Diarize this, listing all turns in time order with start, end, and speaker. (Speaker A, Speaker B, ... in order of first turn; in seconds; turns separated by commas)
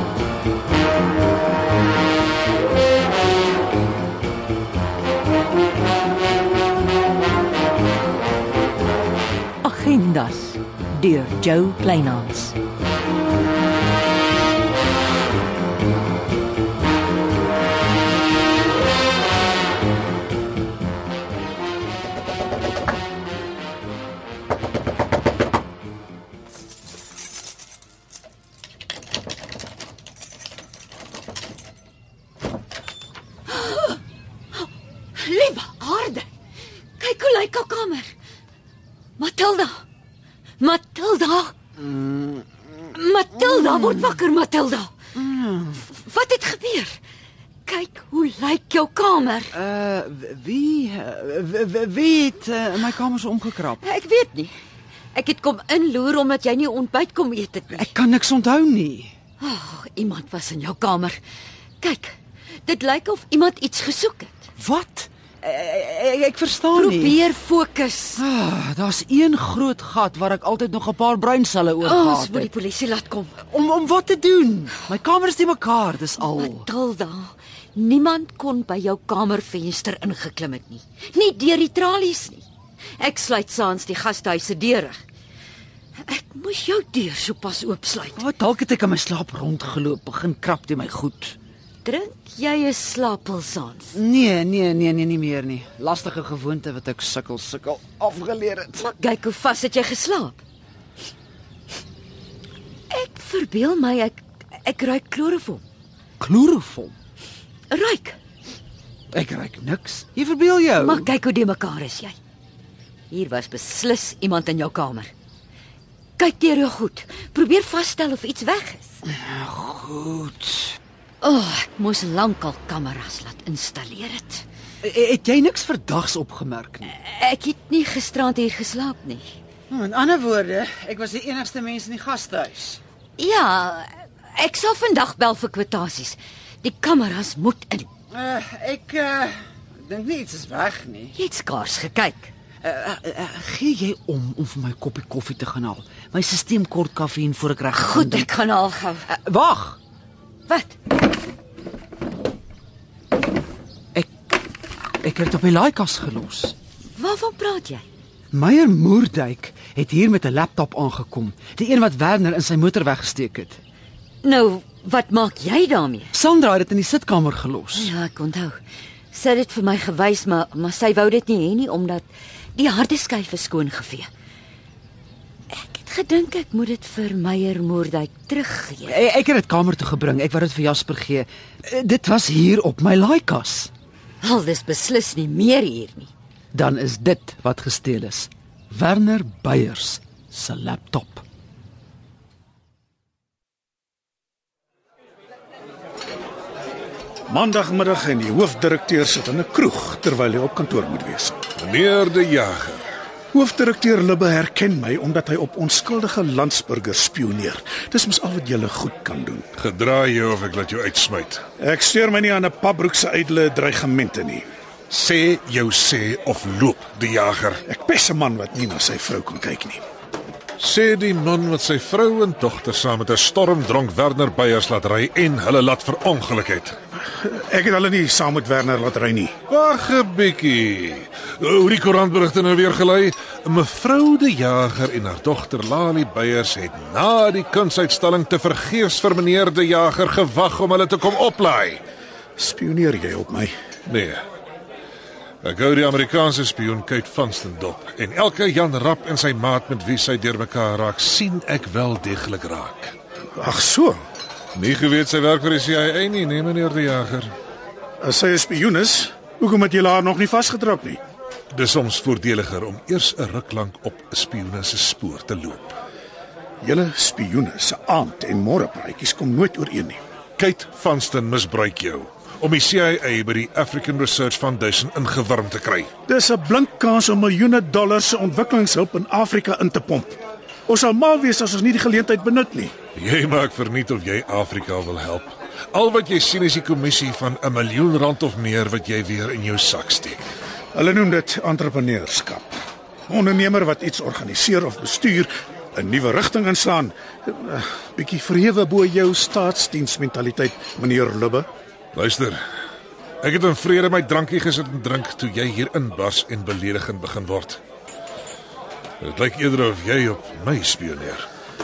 Speaker A: 9.6-12.5, Speaker B: 33.5-34.0, Speaker B: 34.5-36.3, Speaker B: 37.0-38.1, Speaker B: 39.2-39.8, Speaker B: 40.6-41.5, Speaker C: 41.8-42.5, Speaker B: 42.9-44.9, Speaker C: 43.5-44.1, Speaker C: 45.1-45.8, Speaker B: 45.9-47.0, Speaker B: 47.6-49.5, Speaker C: 49.5-53.8, Speaker B: 53.8-54.5, Speaker B: 55.1-57.9, Speaker C: 57.7-59.1, Speaker B: 59.4-61.2, Speaker B: 61.8-64.5, Speaker C: 64.6-67.2, Speaker B: 66.7-68.2, Speaker C: 68.2-72.5, Speaker B: 71.8-73.4, Speaker C: 73.5-76.7, Speaker B: 76.2-82.4, Speaker B: 83.0-85.0, Speaker B: 86.0-88.2, Speaker C: 88.2-91.3, Speaker B: 91.8-93.9, Speaker C: 93.9-98.8, Speaker B: 98.8-100.4, Speaker B: 102.9-105.6, Speaker C: 106.2-106.9, Speaker B: 107.7-108.2, Speaker C: 109.1-111.1, Speaker B: 110.8-112.2, Speaker B: 113.1-115.1, Speaker B: 116.2-119.0, Speaker C: 119.1-120.8, Speaker B: 121.2-124.4, Speaker C: 124.8-126.9, Speaker B: 126.9-129.4, Speaker C: 129.7-132.8, Speaker B: 133.2-137.9, Speaker C: 138.1-141.2, Speaker B: 141.1-142.3, Speaker C: 142.6-148.3, Speaker B: 147.7-149.1, Speaker C: 149.1-149.8, Speaker B: 150.5-150.8, Speaker C: 155.0-156.5, Speaker B: 156.9-157.8, Speaker C: 158.3-163.6, Speaker B: 164.2-166.1, Speaker C: 166.1-167.9, Speaker B: 167.7-168.6, Speaker B: 169.1-174.1, Speaker B: 175.5-179.0, Speaker C: 178.8-183.7, Speaker B: 184.2-186.1, Speaker C: 186.5-191.2, Speaker D: 197.3-201.4, Speaker E: 201.6-202.8, Speaker D: 203.3-209.5, Speaker E: 209.6-211.4, Speaker D: 211.6-214.4, Speaker E: 214.9-217.6, Speaker D: 217.7-219.8, Speaker E: 220.6-226.8, Speaker D: 227.0-229.3, Speaker E: 229.5-241.8, Speaker D: 242.4-243.5, Speaker E: 243.8-244.2, Speaker E: 245.4-252.9, Speaker D: 253.4-254.0, Speaker E: 254.5-257.3, Speaker D: 258.0-261.0, Speaker E: 261.5-265.8, Speaker D: 266.6-270.0, Speaker E: 270.4-275.9, Speaker D: 276.1-282.7, Speaker E: 282.9-290.2, Speaker D: 290.7-292.6, Speaker D: 293.1-301.5, Speaker E: 301.9-302.4, Speaker E: 303.2-307.6, Speaker E: 309.0-311.3